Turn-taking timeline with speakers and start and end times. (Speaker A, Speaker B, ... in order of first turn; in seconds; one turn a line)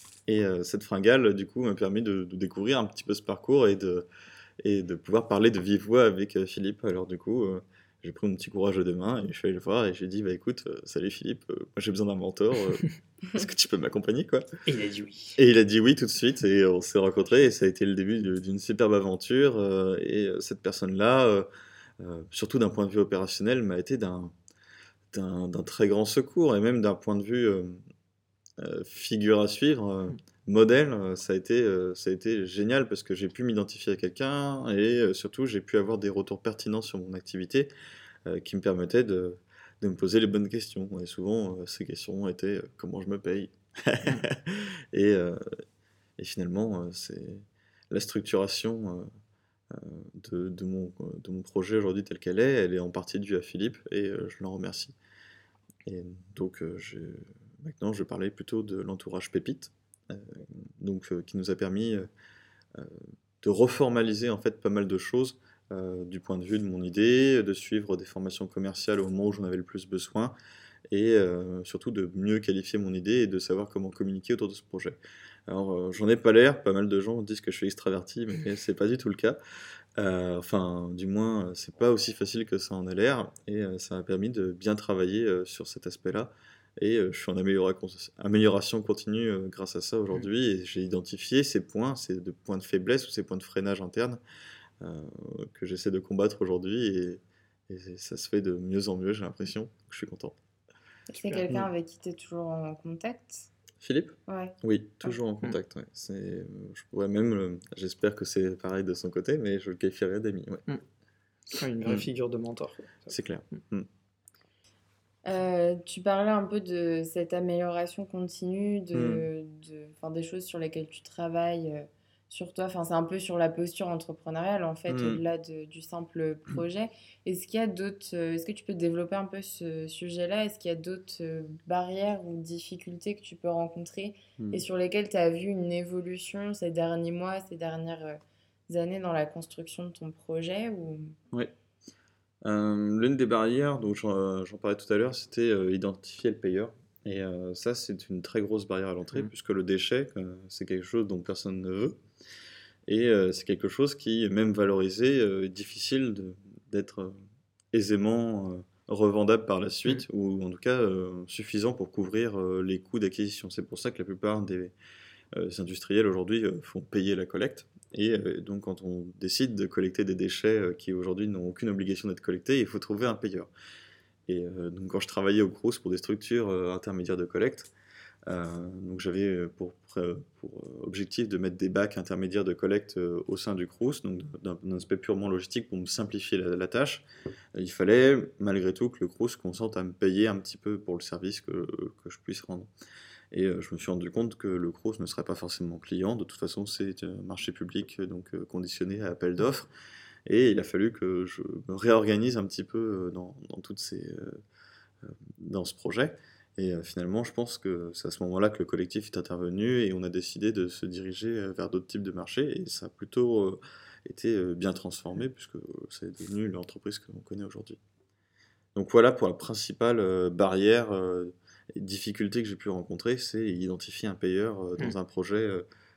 Speaker A: 0.3-4.1
Speaker A: 4.6-14.5
Speaker B: 14.7-15.4
Speaker A: 15.4-21.5
Speaker A: 22.0-24.3
Speaker A: 25.1-27.8
Speaker A: 28.6-37.7
Speaker A: 38.2-45.6
Speaker A: 46.2-49.1
Speaker A: 49.7-55.0
Speaker A: 55.9-62.1
Speaker A: 62.7-70.3
Speaker A: 70.9-79.4
Speaker A: 80.0-94.2
Speaker A: 94.8-100.4
Speaker C: 101.1-103.5
Speaker A: 103.8-110.7
Speaker C: 104.3-104.5
Speaker B: 111.5-113.1
Speaker A: 113.1-113.9
Speaker C: 115.2-141.2
Speaker A: 118.9-119.3
Speaker A: 124.9-125.2
Speaker A: 134.4-134.6
Speaker A: 142.4-152.0
Speaker A: 152.9-157.2
Speaker A: 157.7-164.7
Speaker A: 165.3-173.5
Speaker A: 174.3-177.7
Speaker A: 178.3-192.7
Speaker A: 193.3-199.7
Speaker A: 200.3-204.4
Speaker A: 205.0-217.8
Speaker A: 218.8-225.7